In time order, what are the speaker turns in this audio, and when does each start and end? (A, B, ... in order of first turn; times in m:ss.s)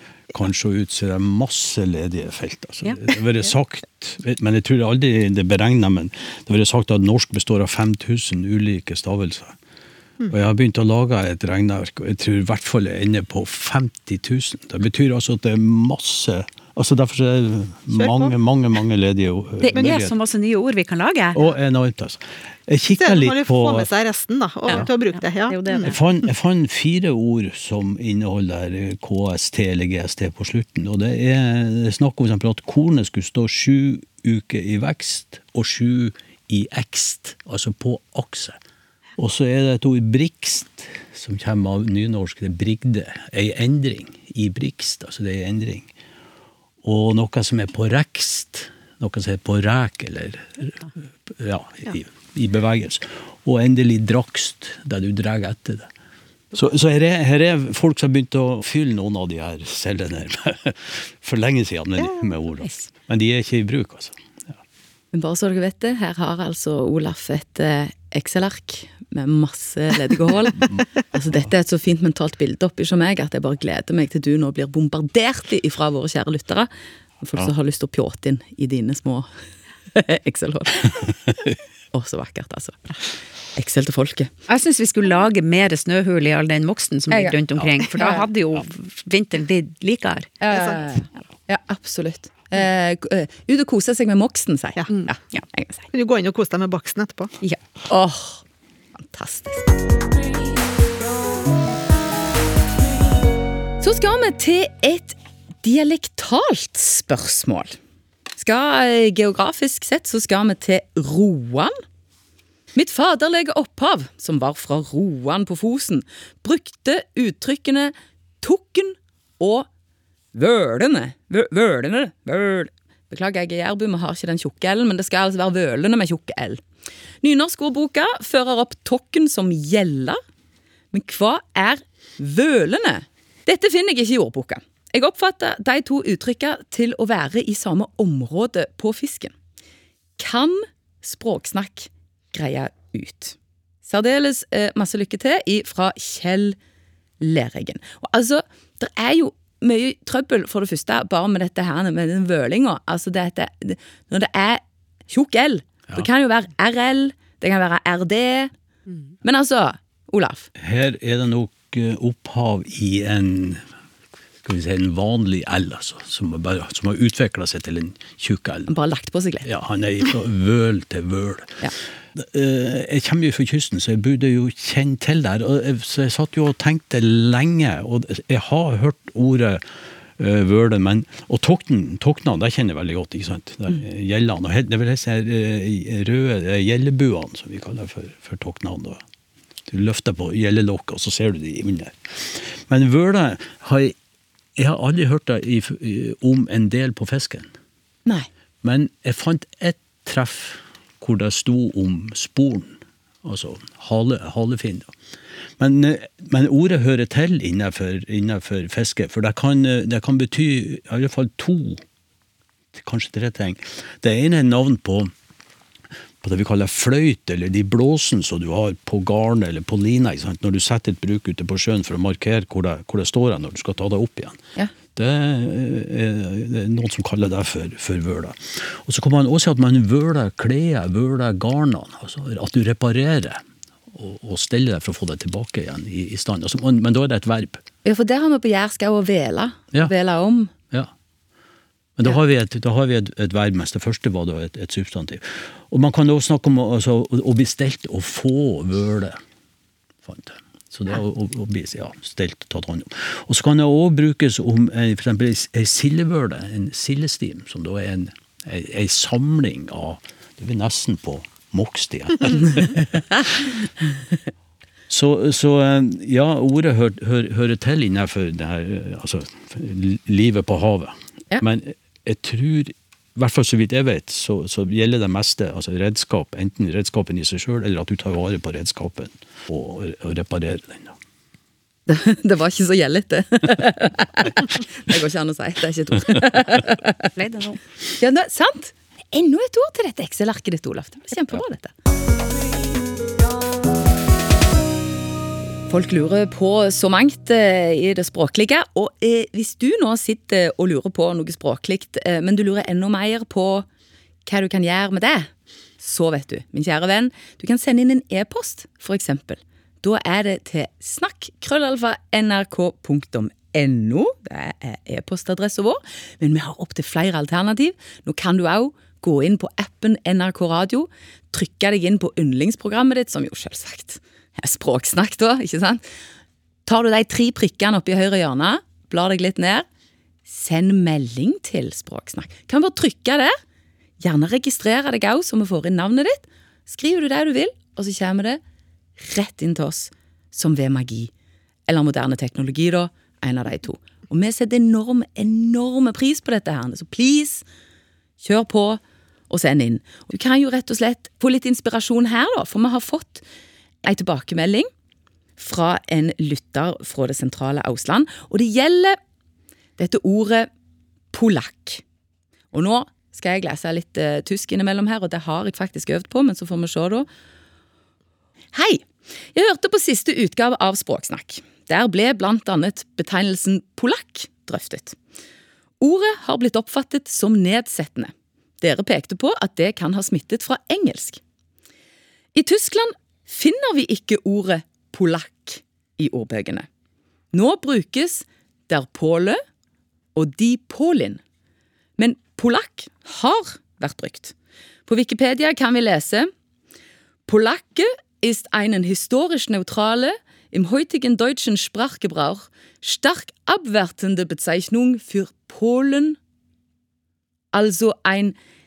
0:00.3-0:09.6 A
0:10.3-0:20.1 A
0:17.9-0:18.3 B
0:19.6-0:21.5 C
0:21.4-0:23.9 A
0:22.9-0:26.0 B
0:25.5-0:26.0 C
0:25.8-0:38.6 A
0:39.2-0:45.9 A
0:46.8-0:55.9 A
0:56.5-1:04.6 A
1:05.1-1:16.7 D
1:17.2-1:19.3 D
1:19.9-1:21.3 D
1:21.9-1:22.9 D
1:23.6-1:24.3 D
1:24.5-1:30.3 C
1:27.1-1:28.3 D
1:30.4-1:35.9 D
1:34.9-1:35.4 C
1:35.9-1:37.3 B
1:37.9-1:38.4 D
1:39.0-1:39.7 D
1:43.8-1:47.8 D
1:48.4-1:51.8 D
1:52.7-1:59.7 D
2:00.3-2:06.6 D
2:07.2-2:10.2 D
2:10.9-2:19.3 D
2:20.2-2:26.6 D
2:27.2-2:38.5 D
2:39.2-2:40.5 D
2:40.6-2:43.6 A
2:44.4-2:48.7 A
2:48.7-2:49.5 D
2:49.4-2:59.6 A
3:00.2-3:09.0 A
3:09.7-3:14.0 A
3:14.6-3:17.5 A
3:18.6-3:24.9 A
3:25.6-3:31.8 A
3:32.7-3:35.1 A
3:36.2-3:44.4 A
3:45.0-3:57.6 A
3:57.8-4:00.5 D
4:02.0-4:09.2 A
4:10.0-4:23.5 A
4:24.9-4:41.0 A
4:41.9-4:47.0 D
4:47.2-4:47.6 C
4:48.0-4:51.7 D
4:55.7-5:03.7 D
5:04.3-5:25.8 D
5:26.7-5:29.7 D
5:30.3-5:33.4 D
5:34.0-5:38.4 D
5:39.0-5:41.1 D
5:41.7-5:47.4 D
5:48.2-5:53.2 D
5:53.8-5:54.7 D
5:55.4-5:59.0 D
5:59.8-6:00.5 D
6:01.1-6:01.8 D
6:02.5-6:07.1 D
6:08.5-6:08.8 D
6:09.4-6:15.0 D
6:15.8-6:21.2 D
6:22.4-6:26.7 D
6:27.3-6:29.4 D
6:30.2-6:31.2 D
6:32.0-6:34.3 D
6:34.9-6:36.3 D
6:37.3-6:46.2 D
6:47.5-6:48.4 D